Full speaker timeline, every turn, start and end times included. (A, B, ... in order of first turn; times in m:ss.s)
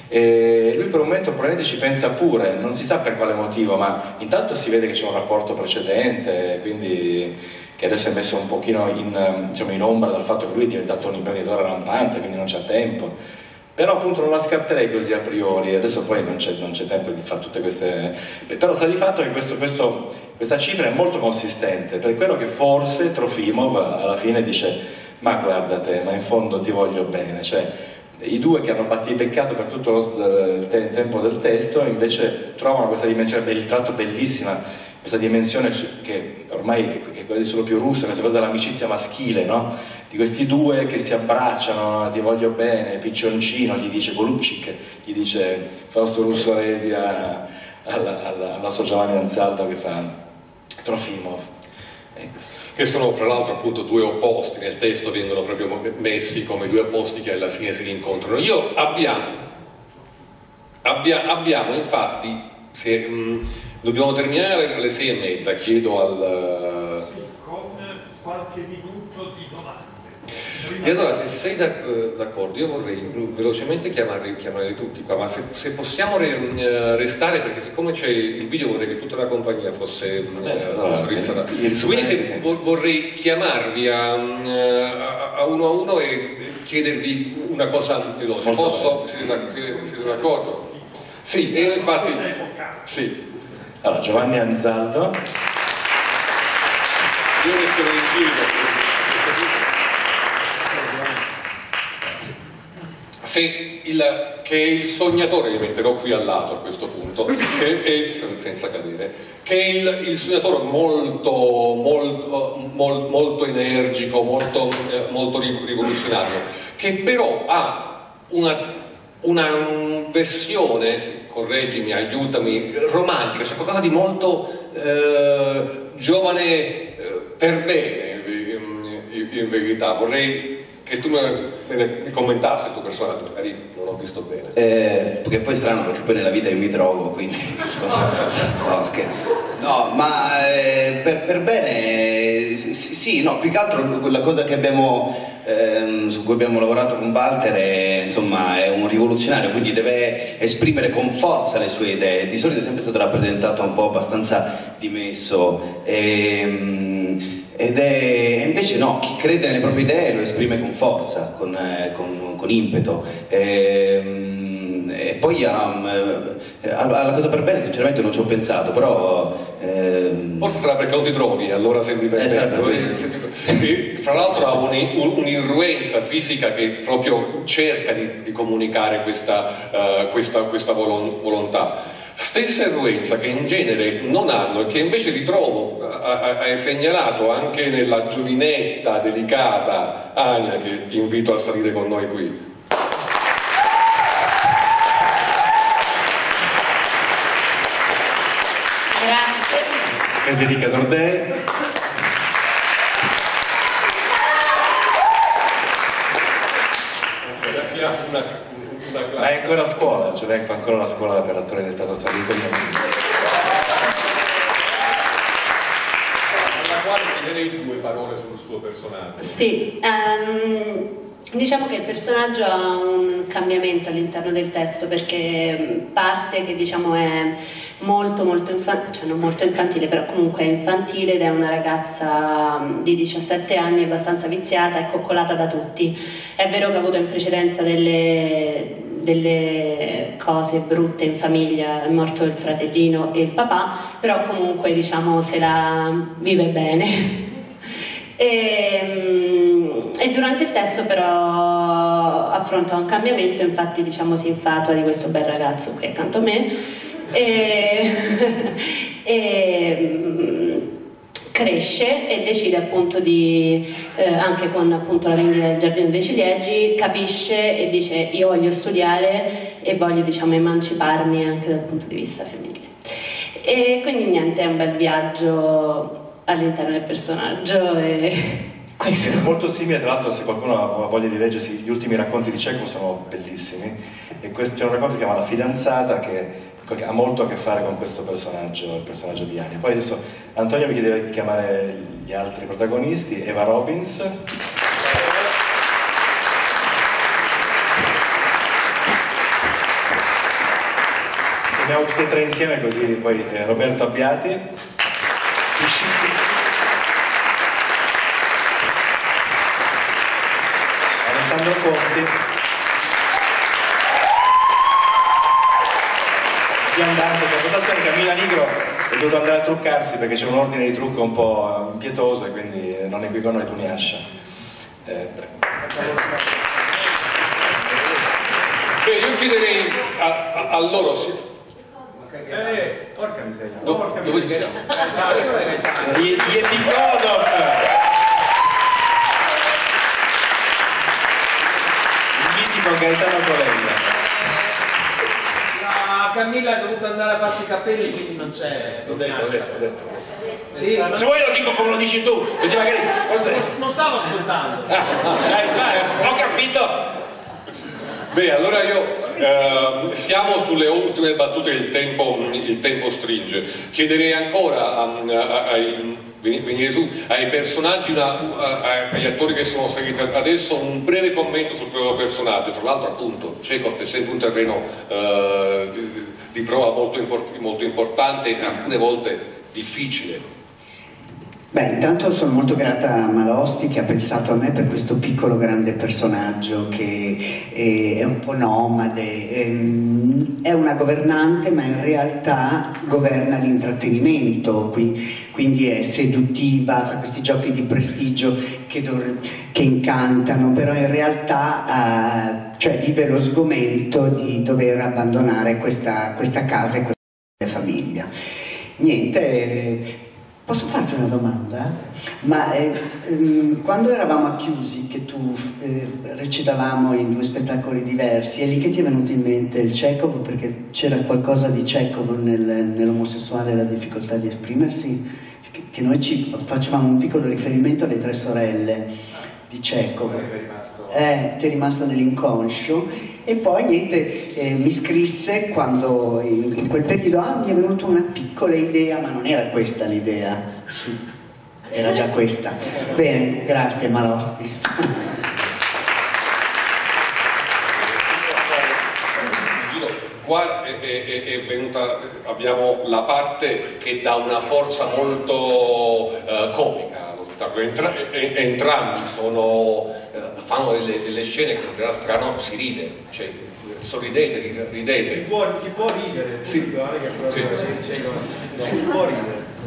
0:00.1-0:13.1 A
0:13.8-0:50.1 A
0:50.8-0:51.5 A
0:52.2-0:52.4 A
0:52.8-0:59.4 B
1:00.8-1:07.1 B
1:07.1-1:10.0 C
1:10.7-1:30.7 B
1:10.8-1:11.1 C
1:20.4-1:22.4 A
1:28.4-1:29.0 A
1:31.2-1:32.3 B
1:31.7-1:32.6 C
1:32.8-1:33.2 B
1:33.8-1:35.2 A
1:37.4-1:39.7 B
1:43.2-1:58.7 B
1:59.2-2:14.5 B
2:14.5-2:50.6 D
2:50.4-3:12.3 B
2:52.2-2:53.0 D
3:19.0-3:19.6 E
3:20.2-3:21.3 A
3:27.5-3:29.3 B
3:29.2-3:32.9 A
3:36.5-3:39.3 B
3:39.2-4:07.2 E
4:08.2-4:16.5 E
4:17.1-4:20.6 E
4:21.3-4:32.8 E
4:33.4-4:39.1 E
4:39.0-4:54.2 A
5:01.6-5:04.4 A
5:05.6-5:06.1 A
5:11.0-5:12.2 A
5:16.7-5:24.0 A
5:24.8-5:25.3 A
5:28.8-5:31.2 B
5:32.3-5:36.2 F
5:33.3-5:34.3 A
5:33.6-5:35.2 B
5:35.8-5:37.6 A
5:42.2-5:43.8 A
5:45.5-5:49.5 F
5:49.1-5:49.8 A
5:50.5-5:51.1 F
5:50.9-5:53.4 A
5:53.3-5:56.4 F
5:54.7-5:56.3 B
5:55.4-5:55.9 A
5:58.1-6:20.3 B
6:21.5-6:48.1 G
6:48.8-6:49.9 G
6:50.5-7:08.9 G
7:09.5-7:21.0 G
7:21.7-7:24.9 G
7:29.3-7:45.3 B
7:45.0-7:49.4 F
7:47.3-7:47.6 B